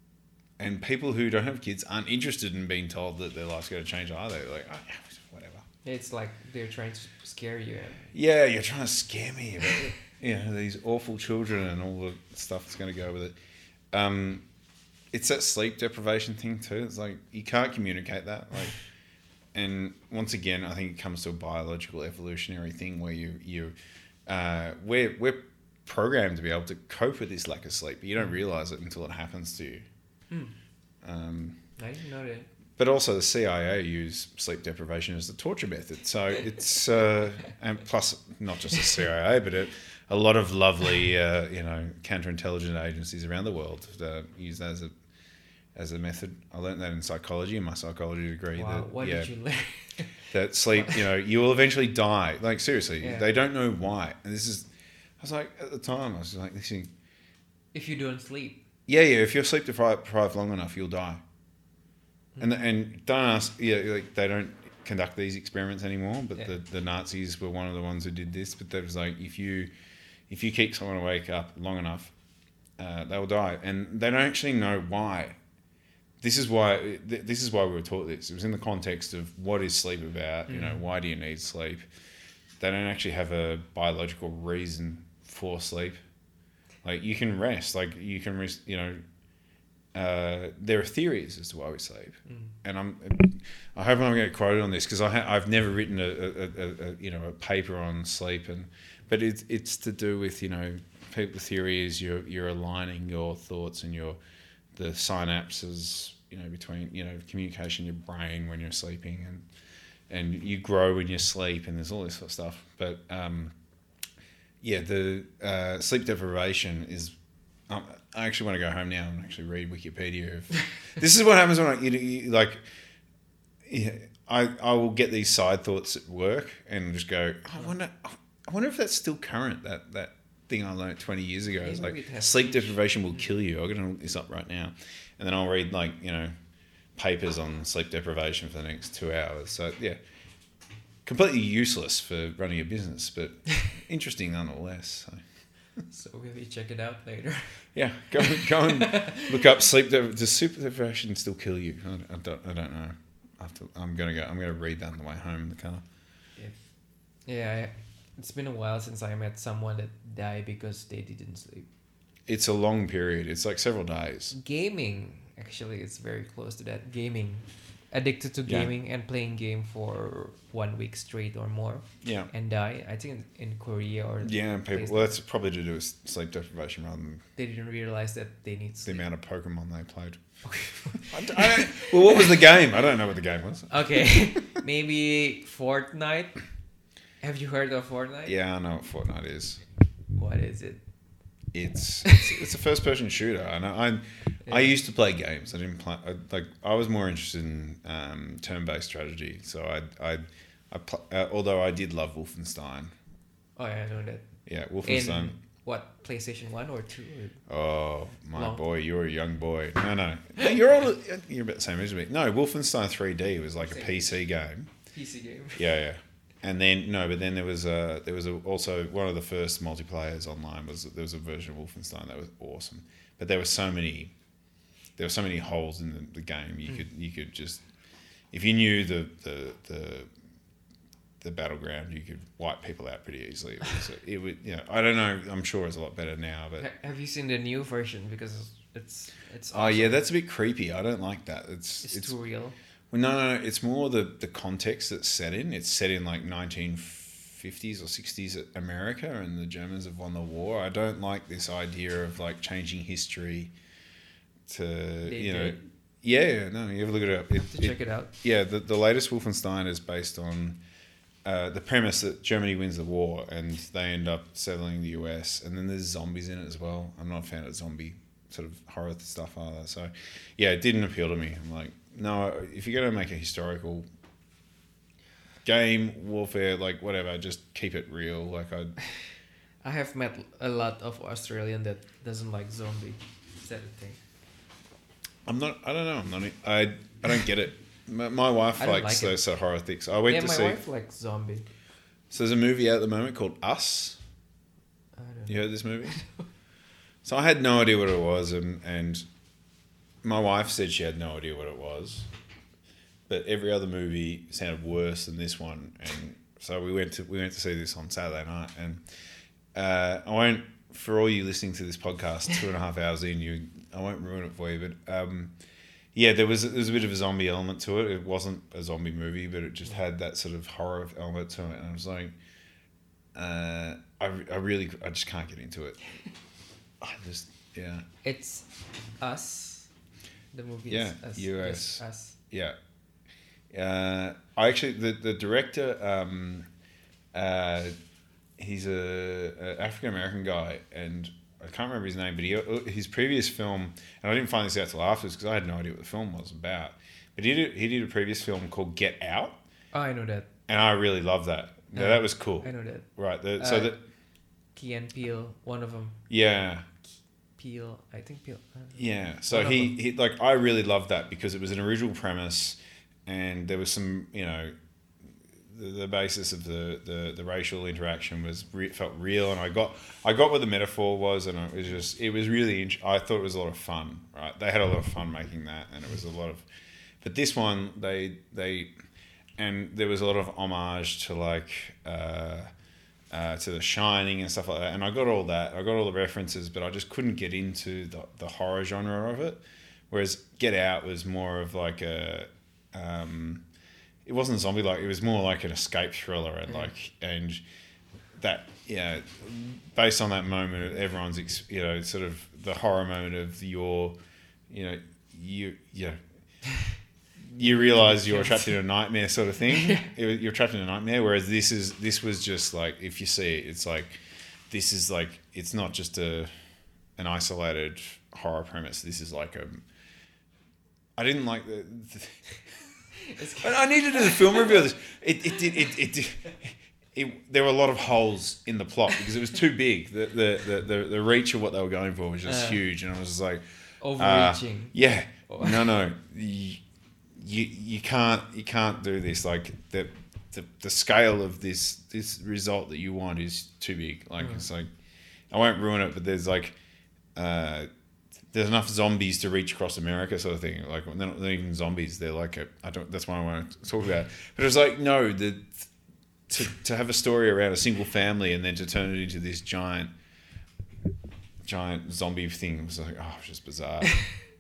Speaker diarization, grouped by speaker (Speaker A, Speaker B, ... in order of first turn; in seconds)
Speaker A: 0.6-5.7, 8.1-13.4, 13.9-14.5, 15.1-18.8, 19.5-23.8, 24.3-29.9, 31.0-31.6, 32.8-44.9, 45.8-49.3, 50.3-56.9, 58.9-61.2, 62.4-69.7, 70.3-72.1, 72.8-75.4, 76.2-81.9, 82.6-86.0, 86.8-89.0, 89.9-104.2, 104.7-109.5, 110.1-113.5, 114.6-117.2, 117.7-122.6, 123.7-136.3, 137.0-140.0, 141.1-145.2, 147.7-155.8, 162.3-164.3, 168.5-168.7, 172.0-172.3, 174.2-177.3, 178.8-180.2, 180.9-183.8, 188.3-189.6, 191.5-202.9, 204.5-205.4, 207.5-214.7, 215.6-224.1, 225.0-227.7, 228.3-230.1, 231.2-236.7, 239.5-242.2, 242.9-253.5, 254.5-260.6, 261.2-273.9, 275.4-278.8, 285.3-290.6, 292.1-294.0, 295.3-296.0, 297.0-299.1, 300.0-302.1, 303.1-308.8, 309.5-315.4, 315.9-322.2, 323.1-325.8, 326.8-327.9, 330.7-332.6, 333.5-336.5, 337.1-337.8, 338.4-349.4, 350.5-353.8, 356.1-356.7, 358.8-364.6, 365.5-376.5, 377.0-378.7, 379.4-382.5, 383.1-393.5, 394.1-397.4, 398.2-404.0, 404.5-406.0, 407.2-416.3, 417.0-419.6, 421.0-422.6, 423.4-433.4, 434.0-436.6, 437.1-444.7, 445.3-446.6, 447.1-447.7, 448.3-455.7, 456.3-459.9, 461.4-464.1
Speaker B: 5.8-8.1, 30.3-30.6, 31.8-32.5, 48.5-51.0, 53.0-53.3, 57.7-58.6, 62.4-62.7, 80.5-80.8, 92.3-92.5, 131.6-132.8, 145.9-149.4, 156.4-156.7, 157.3-161.7, 164.3-175.2, 177.4-179.1, 180.4-182.6, 183.7-186.4, 187.2-188.4, 190.2-190.8, 192.1-192.3, 194.5-194.8, 203.6-204.3, 204.8-207.4, 208.3-208.6, 213.6-214.1, 214.9-215.7, 236.6-240.0, 241.8-242.6, 255.0-255.6, 257.4-258.1, 279.6-284.0, 288.6-289.2, 290.1-291.5, 295.0-296.3, 328.0-328.5, 329.0-329.7, 330.3-332.2, 349.7-350.3, 351.7-352.9, 353.4-353.8, 354.6-356.0, 357.4-358.8, 359.3-359.8, 407.4-408.6, 409.6-409.9, 423.0-424.6, 432.3-432.6, 433.8-434.8, 435.3-435.7, 444.2-444.4